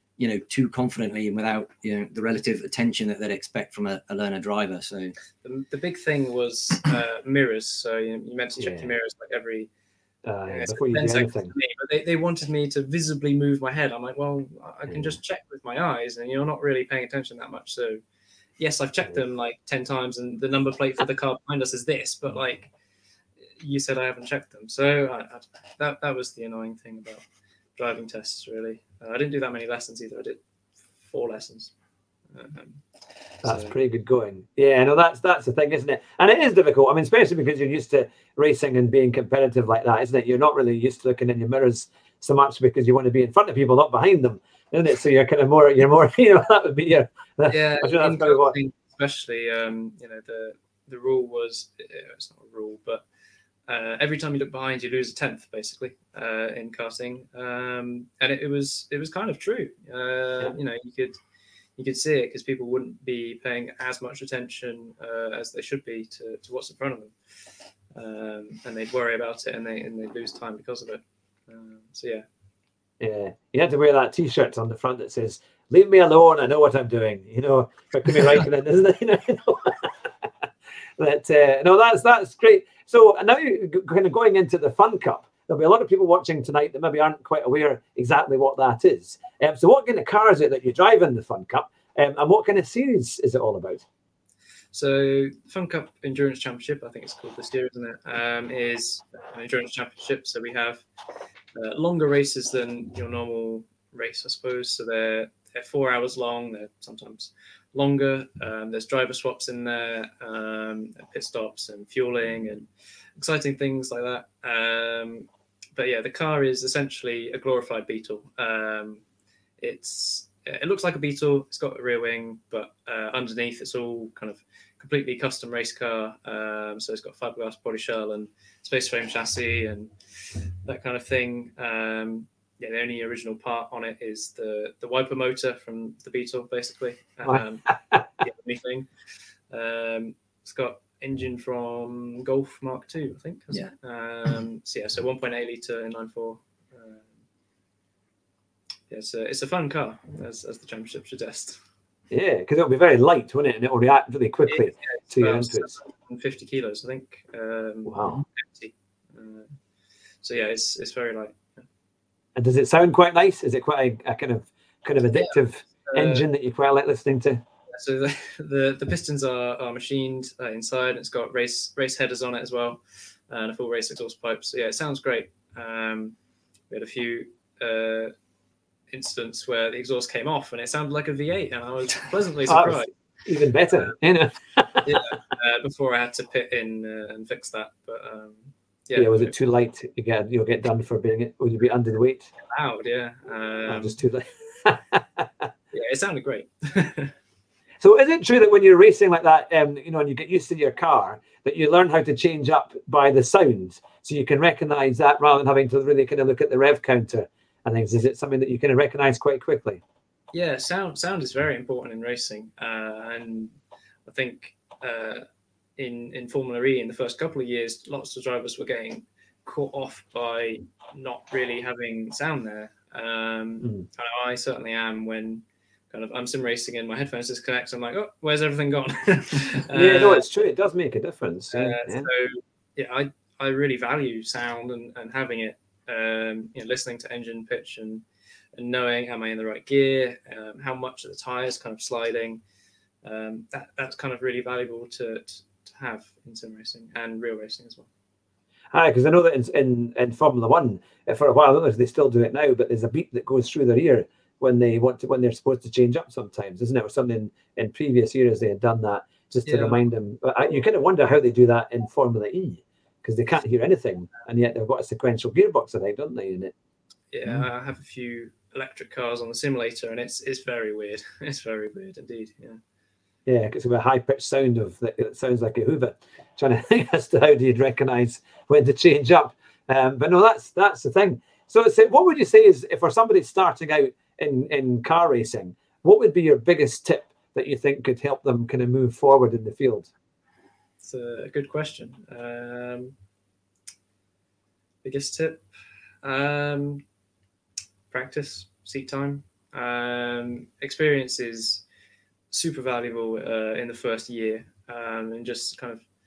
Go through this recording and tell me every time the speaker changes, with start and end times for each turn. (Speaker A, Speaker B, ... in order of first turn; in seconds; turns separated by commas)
Speaker A: 0.2-5.2, Speaker B: 5.4-9.7, Speaker C: 8.6-8.9, Speaker C: 10.2-11.5, Speaker B: 10.5-18.0, Speaker B: 18.6-22.7, Speaker B: 23.6-27.2, Speaker B: 27.8-30.4, Speaker B: 31.0-31.7, Speaker B: 32.3-32.8, Speaker B: 33.4-33.8, Speaker C: 33.4-48.5, Speaker B: 47.5-53.0, Speaker B: 53.7-61.2, Speaker B: 61.8-67.1, Speaker B: 67.9-72.2, Speaker C: 73.0-80.3, Speaker C: 81.0-93.8, Speaker B: 94.7-100.8, Speaker B: 101.6-119.0, Speaker B: 119.6-138.9, Speaker B: 139.5-147.1, Speaker B: 148.9-151.6, Speaker C: 152.1-155.7, Speaker B: 154.5-159.5, Speaker C: 157.9-158.2, Speaker B: 160.2-161.6, Speaker C: 162.4-167.4, Speaker B: 165.2-166.2, Speaker B: 167.7-176.2, Speaker B: 176.7-178.1, Speaker B: 178.9-182.9, Speaker C: 182.5-184.9, Speaker B: 184.8-189.3, Speaker C: 189.0-192.3, Speaker B: 192.5-194.0, Speaker C: 193.7-195.5, Speaker B: 195.7-197.1, Speaker C: 197.8-209.8, Speaker B: 210.3-213.5, Speaker B: 214.1-215.2, Speaker B: 215.8-230.3, Speaker C: 229.7-232.1, Speaker B: 231.5-238.0, Speaker B: 238.6-242.4, Speaker B: 243.0-247.9, Speaker C: 248.7-266.5, Speaker B: 259.5-259.8, Speaker B: 267.1-272.6, Speaker C: 273.3-289.9, Speaker B: 290.8-292.9, Speaker B: 294.8-295.5, Speaker B: 296.0-296.8, Speaker B: 297.9-301.6, Speaker B: 302.3-305.9